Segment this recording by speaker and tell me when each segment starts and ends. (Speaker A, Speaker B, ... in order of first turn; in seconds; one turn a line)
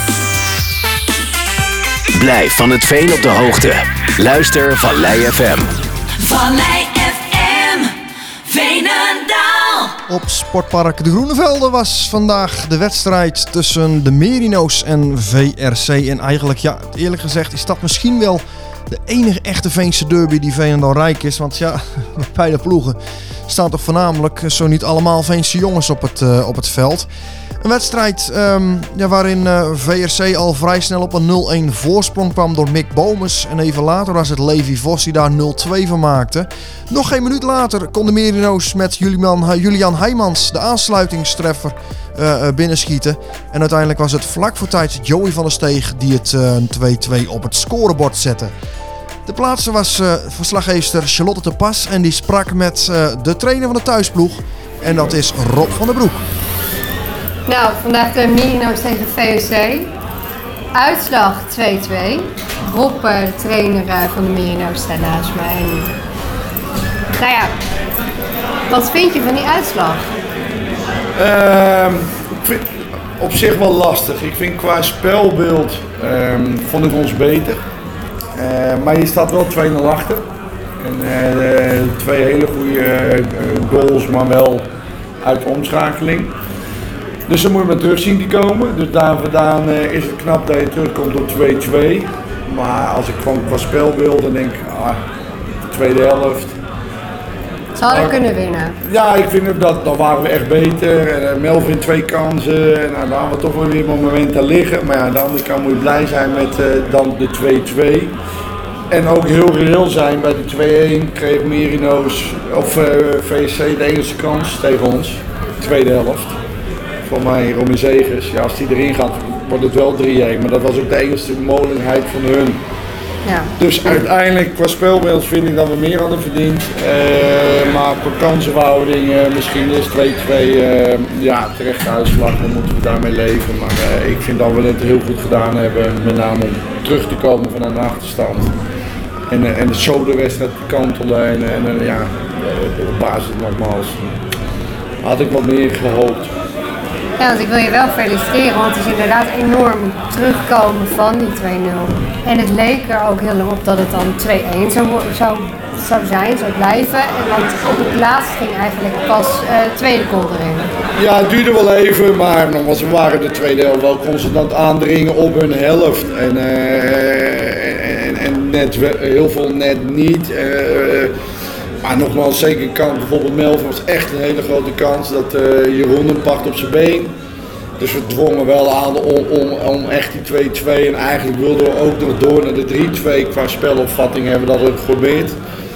Speaker A: 2.1-5.8
Speaker B: 6.3-7.9
Speaker B: 8.7-9.2
Speaker C: 10.1-27.1
Speaker C: 27.6-48.5
Speaker C: 49.2-56.2
Speaker D: 57.5-59.9
Speaker D: 60.7-65.9
Speaker D: 67.2-67.5
Speaker D: 68.7-70.1
Speaker E: 71.2-77.6
Speaker E: 78.3-80.2
Speaker E: 80.8-84.7
Speaker E: 85.2-86.3
Speaker E: 87.3-95.0
Speaker E: 95.7-96.5
Speaker D: 97.7-98.8
Speaker E: 97.9-98.2
Speaker E: 98.8-108.1
Speaker E: 108.9-116.4
Speaker E: 117.0-122.6
Speaker D: 123.2-123.5
Speaker E: 123.6-138.6
Speaker E: 139.3-144.2
Speaker E: 145.0-146.3
Speaker D: 147.2-160.7
Speaker E: 160.9-171.1
Speaker E: 171.8-177.1
Speaker E: 177.8-185.4